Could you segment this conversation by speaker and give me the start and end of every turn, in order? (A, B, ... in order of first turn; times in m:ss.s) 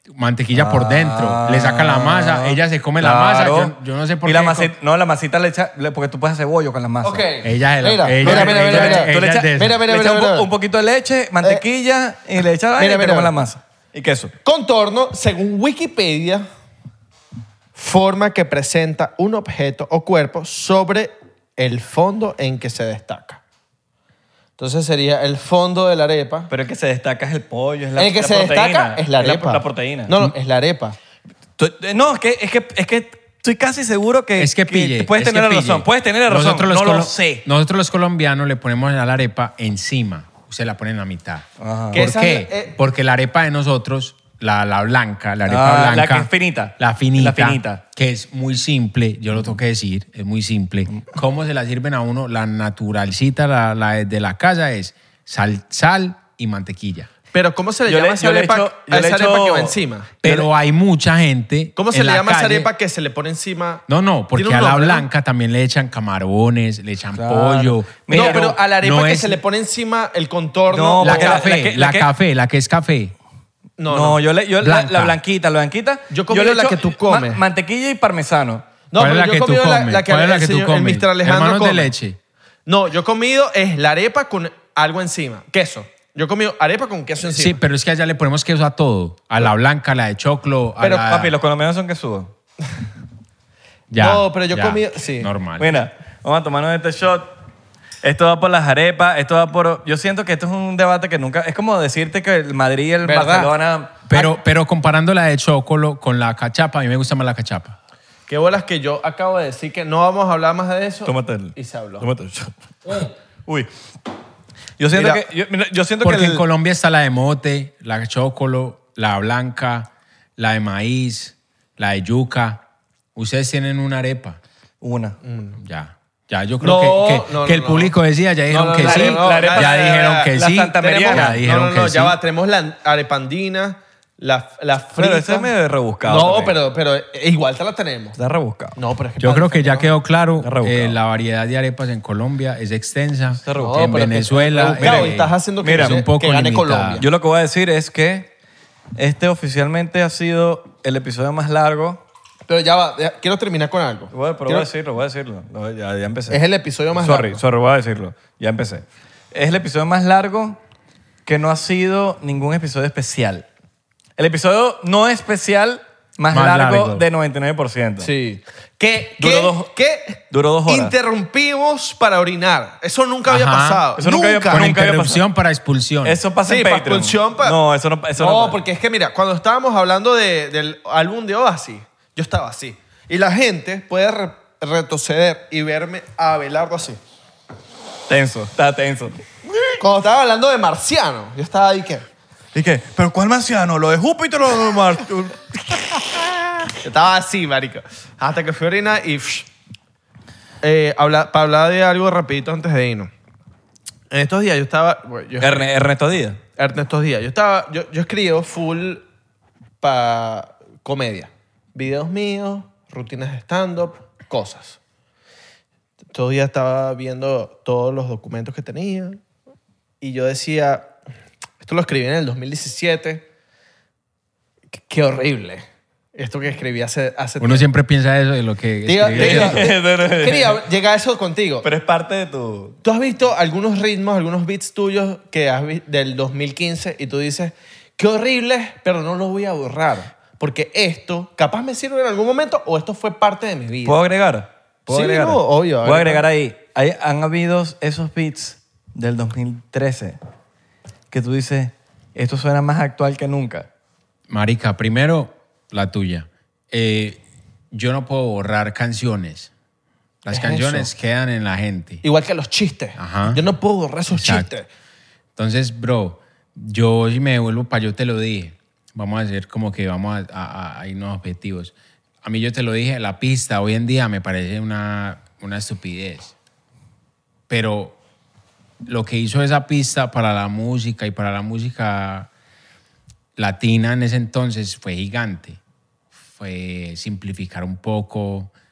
0:00.1-0:04.7 A
0:00.5-0:07.2 B
0:07.0-0:10.5 C
0:07.4-0:09.8 A
0:08.2-0:14.3 B
0:12.8-0:13.3 C
0:14.4-0:16.4 C
0:17.7-0:23.4 C
0:24.6-0:26.5 C
0:26.5-0:30.1 B
0:28.0-0:31.0 C
0:31.6-0:37.4 B
0:34.4-0:57.1 A
0:41.6-0:42.1 B
0:41.9-0:42.7 C
0:45.4-0:47.8 B
0:57.3-1:00.1 C
0:57.9-1:00.5 B
1:00.2-1:02.7 A
1:01.8-1:03.8 C
1:03.9-1:09.4 A
1:04.3-1:05.1 C
1:07.1-1:08.6 B
1:08.1-1:11.4 C
1:10.7-1:12.1 B
1:11.0-1:13.1 A
1:13.8-1:14.2 C
1:13.9-1:18.6 B
1:14.6-1:15.2 A
1:16.1-1:17.4 C
1:18.9-1:21.9 C
1:19.0-1:22.2 A
1:22.6-1:27.6 C
1:27.2-1:31.3 A
1:30.9-1:32.3 B
1:33.9-1:35.8 A
1:34.0-1:35.3 C
1:35.6-1:37.3 B
1:38.0-1:44.3 B
1:43.0-1:43.5 C
1:44.1-1:47.8 A
1:48.3-1:52.1 C
1:51.0-1:53.7 B
1:54.8-1:56.4 B
1:54.9-1:55.2 C
1:56.0-2:02.6 A
2:03.2-2:04.4 A
2:04.8-2:05.2 B
2:05.2-2:05.6 C
2:05.6-2:12.2 A
2:06.6-2:07.9 C
2:08.5-2:15.5 C
2:08.8-2:11.4 B
2:15.0-2:16.6 B
2:16.0-2:18.2 C
2:18.2-2:18.8 B
2:18.7-2:19.9 C
2:19.2-2:27.0 A
2:20.4-2:21.0 B
2:23.4-2:24.0 B
2:23.5-2:27.0 C
2:24.8-2:26.0 B
2:27.0-2:28.3 B
2:29.0-2:32.0 B
2:32.5-2:34.7 C
2:34.1-2:36.4 B
2:36.3-2:37.4 C
2:37.0-2:40.6 B
2:41.2-2:43.4 B
2:44.2-2:48.1 B
2:46.3-2:47.0 A
2:48.0-2:54.7 C
2:49.2-2:49.7 B
2:50.3-2:50.9 B
2:53.3-2:53.9 A
2:54.0-2:55.2 B
2:54.5-2:56.2 A
2:56.0-2:58.6 B
2:56.4-2:57.6 C
2:58.2-3:07.0 C
3:08.1-3:09.2 B
3:09.8-3:12.0 C
3:12.5-3:16.6 B
3:16.8-3:19.5 C
3:20.6-3:23.1 C
3:24.1-3:25.7 C
3:25.4-3:26.4 B
3:26.6-3:29.0 C
3:29.8-3:34.8 C
3:36.1-3:39.2 C
3:40.0-3:40.9 C
3:41.6-3:43.2 C
3:44.7-3:47.7 C
3:47.4-3:49.6 A
3:48.8-3:51.6 C
3:49.1-3:50.6 B
3:51.6-3:52.8 B
3:52.8-4:04.0 C
4:03.8-4:10.2 B
4:04.9-4:06.2 C
4:11.1-4:13.7 B
4:14.3-4:17.2 A
4:17.7-4:19.5 A
4:20.2-4:22.0 A
4:20.3-4:20.9 C
4:22.0-4:24.7 C
4:23.0-4:23.4 A
4:24.1-4:24.5 A
4:25.4-4:36.3 A
4:37.5-4:38.0 A
4:38.8-4:42.3 A
4:43.4-4:45.6 A
4:46.3-4:48.5 A